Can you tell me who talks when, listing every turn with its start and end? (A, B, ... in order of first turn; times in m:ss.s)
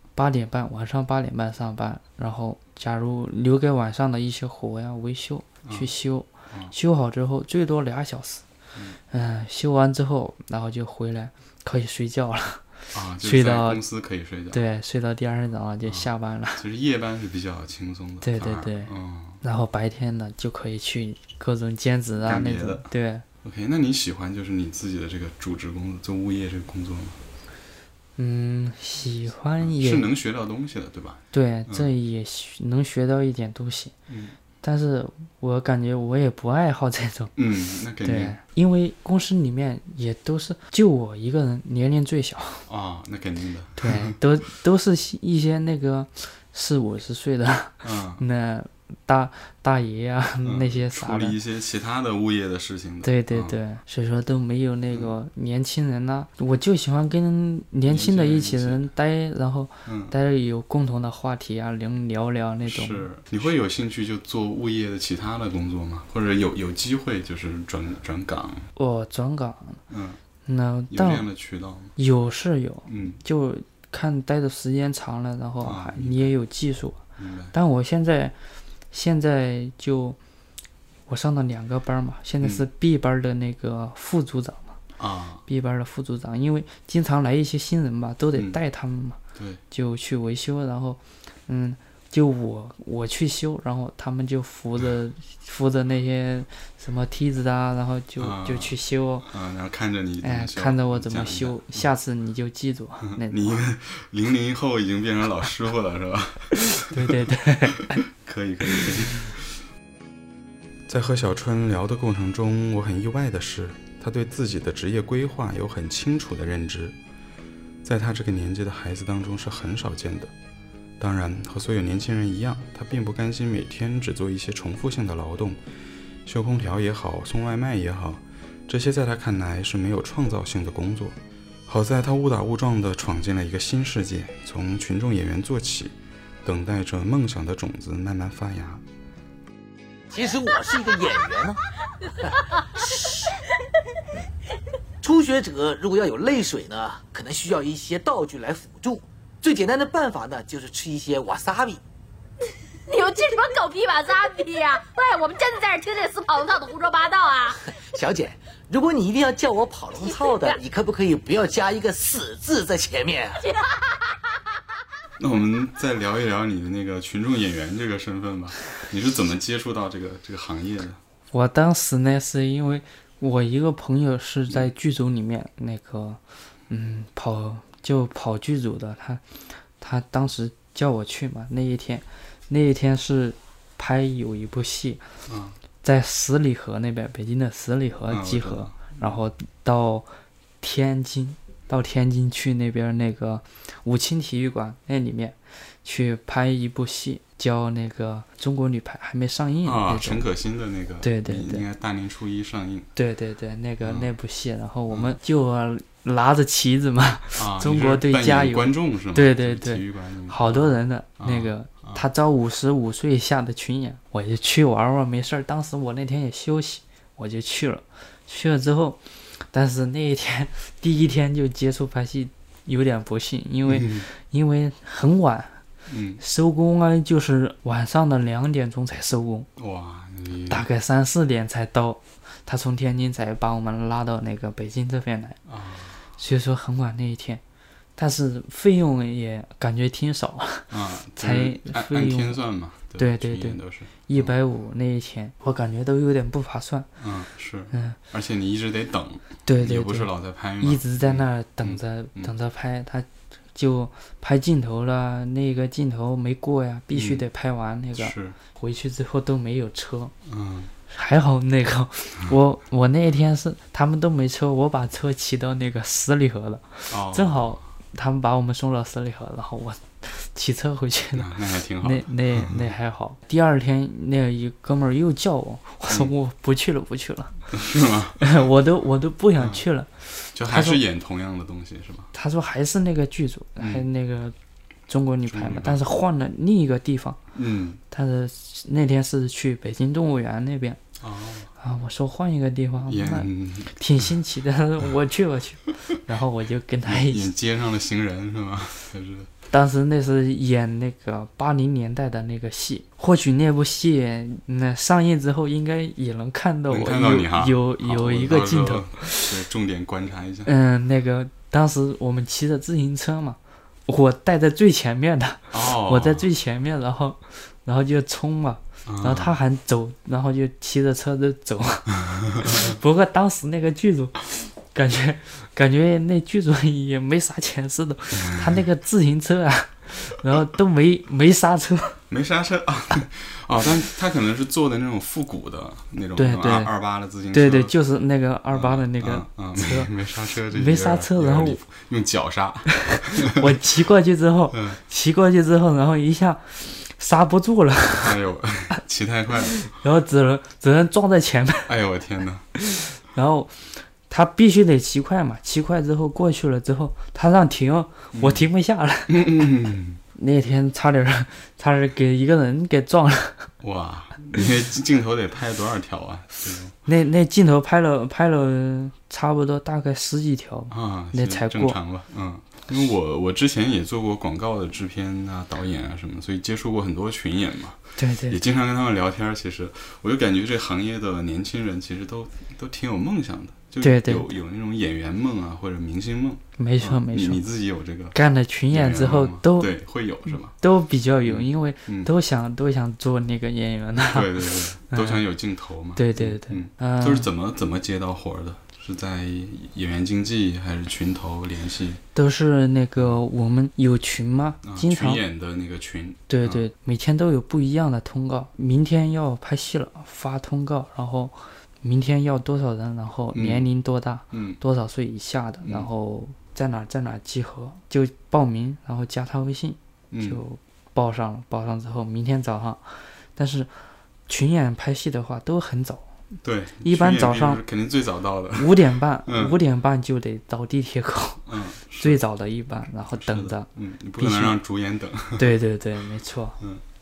0:00.2-0:08.4 A
0:05.6-0:05.9 B
0:09.1-0:13.8 A
0:12.9-0:14.6 B
0:14.5-0:16.6 A
0:15.8-0:19.4 B
0:18.2-0:23.2 A
0:22.2-0:22.9 B
0:23.4-0:27.2 B
0:28.2-0:30.1 A
0:29.6-0:31.9 B
0:31.3-0:33.9 A
0:34.1-0:34.4 B
0:34.6-0:37.3 A
0:37.4-0:38.4 B
0:38.0-0:42.6 A
0:42.6-0:44.2 B
0:43.8-0:51.4 A
0:47.8-0:48.2 B
0:50.4-0:53.6 B
0:53.0-1:03.1 A
0:57.9-0:58.8 B
0:59.8-1:00.2 B
1:02.6-1:08.7 B
1:08.8-1:09.8 A
1:09.9-1:10.2 B
1:10.4-1:11.2 A
1:10.9-1:11.9 B
1:12.0-1:17.0 A
1:12.9-1:13.2 B
1:15.6-1:16.3 B
1:17.2-1:17.5 B
1:17.5-1:18.4 A
1:18.9-1:20.2 A
1:21.1-1:24.8 A
1:25.0-1:25.4 B
1:25.5-1:29.2 A
1:29.3-1:29.6 B
1:29.7-1:39.3 A
1:38.2-1:41.9 B
1:40.2-1:43.6 A
1:43.0-1:47.2 B
1:46.8-1:48.0 A
1:47.9-1:49.6 B
1:50.9-1:57.0 B
1:57.8-2:00.3 B
2:01.0-2:05.6 B
2:06.2-2:11.2 B
2:11.7-2:18.8 B
2:20.1-2:21.6 C
2:22.7-2:23.3 C
2:25.0-2:31.8 C
2:32.9-2:37.6 D
2:37.6-2:43.4 C
2:45.2-2:51.0 B
2:51.3-2:59.2 A
2:59.8-3:05.0 A
3:05.3-3:05.6 B
3:05.8-3:10.1 A
3:08.1-3:09.2 B
3:10.6-3:20.3 A
3:19.6-3:22.9 B
3:21.0-3:21.6 A
3:23.0-3:45.6 A
3:23.8-3:24.1 B
3:24.9-3:25.2 B
3:27.3-3:32.0 B
3:43.6-3:44.1 B
3:45.9-3:46.2 B
3:46.2-3:49.5 A
3:49.6-3:50.6 B
3:50.5-3:55.4 A
3:55.4-3:56.0 B
3:56.2-3:57.4 A
3:58.0-4:02.4 A
4:00.7-4:04.3 B
4:03.0-4:06.9 A
4:07.0-4:12.3 B
4:07.7-4:08.0 A
4:09.4-4:20.1 A
4:16.9-4:17.2 B
4:18.0-4:18.4 B
4:20.2-4:20.7 B
4:20.9-4:37.6 A
4:26.9-4:27.6 B
4:31.1-4:32.7 B
4:37.5-4:38.3 B
4:38.2-4:40.8 A
4:39.4-4:39.6 B
4:40.3-4:42.1 B
4:42.1-4:44.4 A
4:43.6-4:43.8 B
4:44.9-4:47.2 A
4:45.3-4:45.8 B
4:47.3-4:47.8 B
4:47.9-4:50.8 A
4:51.0-4:51.5 B
4:51.6-4:57.3 A
4:52.9-4:54.1 B
4:56.8-4:59.3 B
4:59.5-5:09.3 A
5:06.7-5:10.5 B
5:10.4-5:32.0 A
5:15.5-5:16.2 B
5:18.8-5:19.4 B
5:28.3-5:28.6 B
5:32.1-5:37.7 B
5:36.2-5:36.7 A
5:37.3-5:39.9 A
5:38.5-5:43.4 B
5:40.5-5:41.6 A
5:43.1-5:48.2 A
5:44.5-5:44.8 B
5:48.0-5:49.6 B
5:49.6-5:51.7 A
5:51.6-5:52.4 B
5:52.6-5:59.3 A
5:58.1-5:58.5 B
5:59.1-6:00.0 B
6:00.1-6:03.5 A
6:03.6-6:06.7 B
6:06.8-6:11.8 A
6:10.7-6:28.2 B
6:18.0-6:18.4 A
6:23.8-6:24.3 A
6:26.6-6:27.4 A
6:28.1-6:29.7 A
6:28.7-6:30.5 B
6:30.5-6:35.2 A
6:31.2-6:32.1 B
6:34.0-6:42.0 B
6:36.0-6:37.3 A
6:42.1-6:45.2 A
6:43.0-6:43.2 B
6:44.6-6:46.6 B
6:46.3-7:03.7 A
6:53.3-6:53.7 B
6:54.3-6:54.6 B
6:55.6-6:55.9 B
7:00.1-7:00.4 B
7:04.3-7:06.1 A
7:06.4-7:09.6 B
7:06.8-7:07.6 A
7:08.6-7:14.6 A
7:11.4-7:12.2 B
7:13.1-7:15.5 B
7:15.4-7:16.6 A